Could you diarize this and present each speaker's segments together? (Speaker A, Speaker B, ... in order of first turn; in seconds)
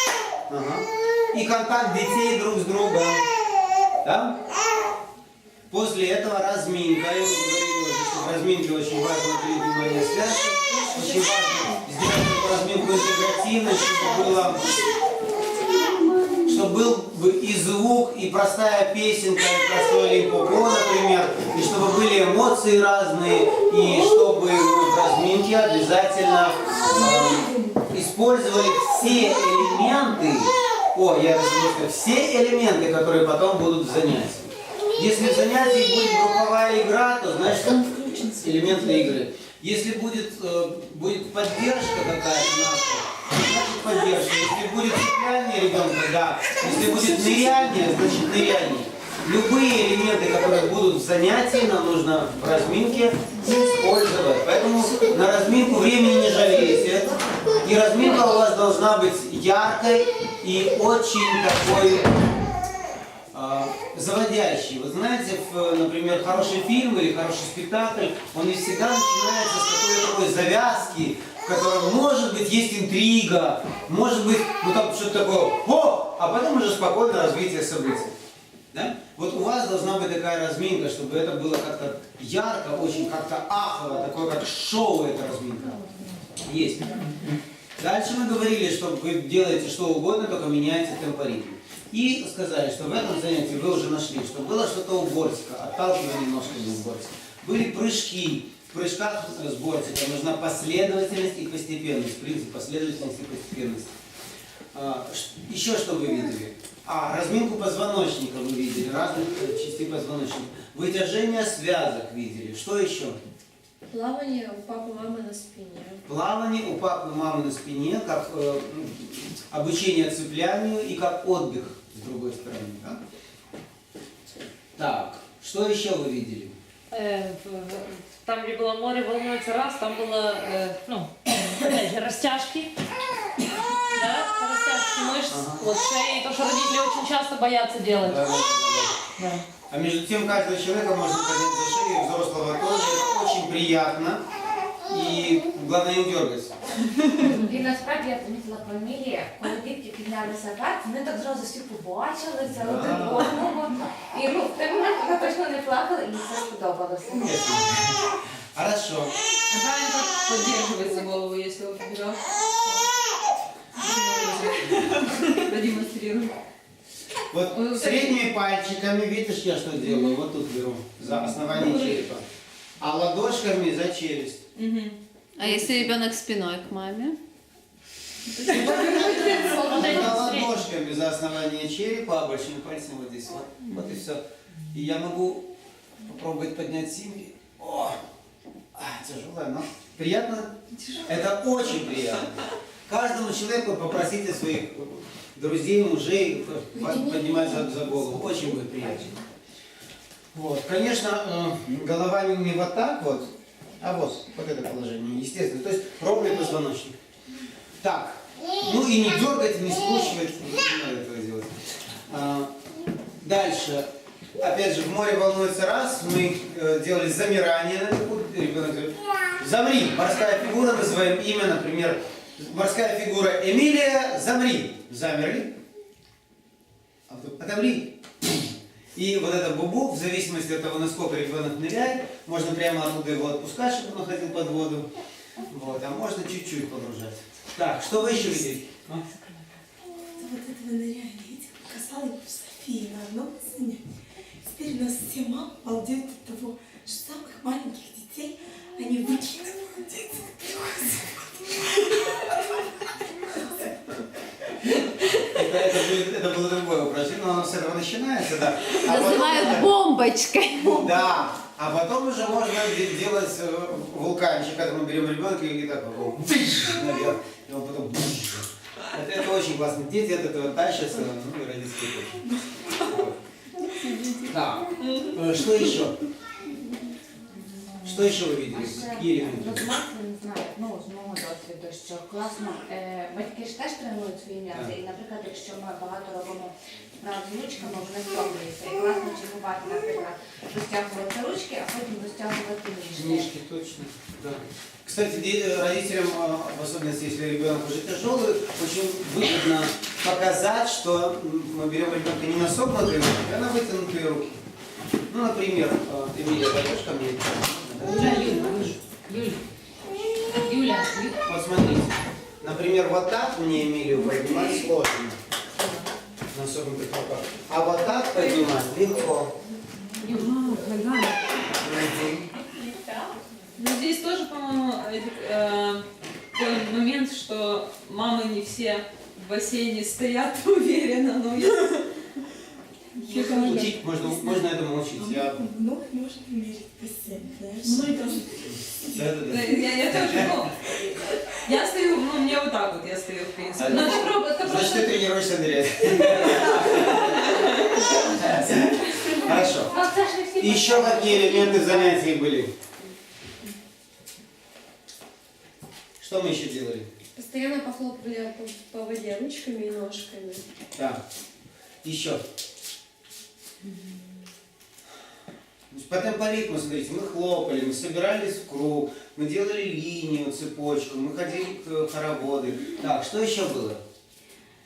Speaker A: 0.5-3.3, 4.0-4.4, 5.7-14.7, 16.5-62.1, 63.3-78.2, 78.7-85.8, 86.4-103.9, 104.7-113.2, 116.1-123.0, 124.8-126.6, 135.3-135.7, 138.0-138.9, 139.7-144.2, 144.9-146.6, 152.5-153.3, 157.2-159.1, 167.3-172.2, 172.8-174.4, 178.4-185.5, 186.0-188.0, 188.7-199.2, 200.3-207.0, 207.8-211.6, 212.1-212.5, 213.2-213.9, 214.4-225.6, 227.1-234.9, 235.5-239.1, 255.2-259.7, 260.8-272.2, 272.9-273.2, 274.3-276.0, 277.8-279.7, 292.9-304.4, 305.1-308.8, 311.2-315.2, 316.3-319.3, 321.6-322.3, 333.1-335.4, 338.5-340.3, 343.6-349.7, 350.4-352.5, 356.0-356.9, 360.8-361.0, 361.8-362.2, 365.7-373.8
Speaker B: 15.8-16.4, 175.4-177.2, 258.8-260.9
Speaker C: 27.0-27.6, 197.0-197.4, 240.2-243.9, 244.4-253.5, 273.8-274.1, 333.0-339.3
Speaker D: 85.8-86.1, 147.3-157.4, 277.7-293.3, 322.5-323.1, 349.1-351.9
Speaker E: 113.9-116.0, 357.2-360.4
Speaker F: 126.9-132.7, 133.9-138.2, 139.2-139.4, 178.4-180.7, 307.9-309.4, 310.4-311.2, 315.6-315.9, 320.0-320.3
Speaker G: 159.5-162.9, 163.7-166.3, 167.5-168.2, 171.1-172.0, 174.6-175.0, 178.6-179.7, 190.8-191.1, 318.1-318.5, 320.0-321.2, 323.6-331.9, 333.1-333.7, 337.6-338.1, 339.3-340.6, 341.3-345.0, 345.9-347.9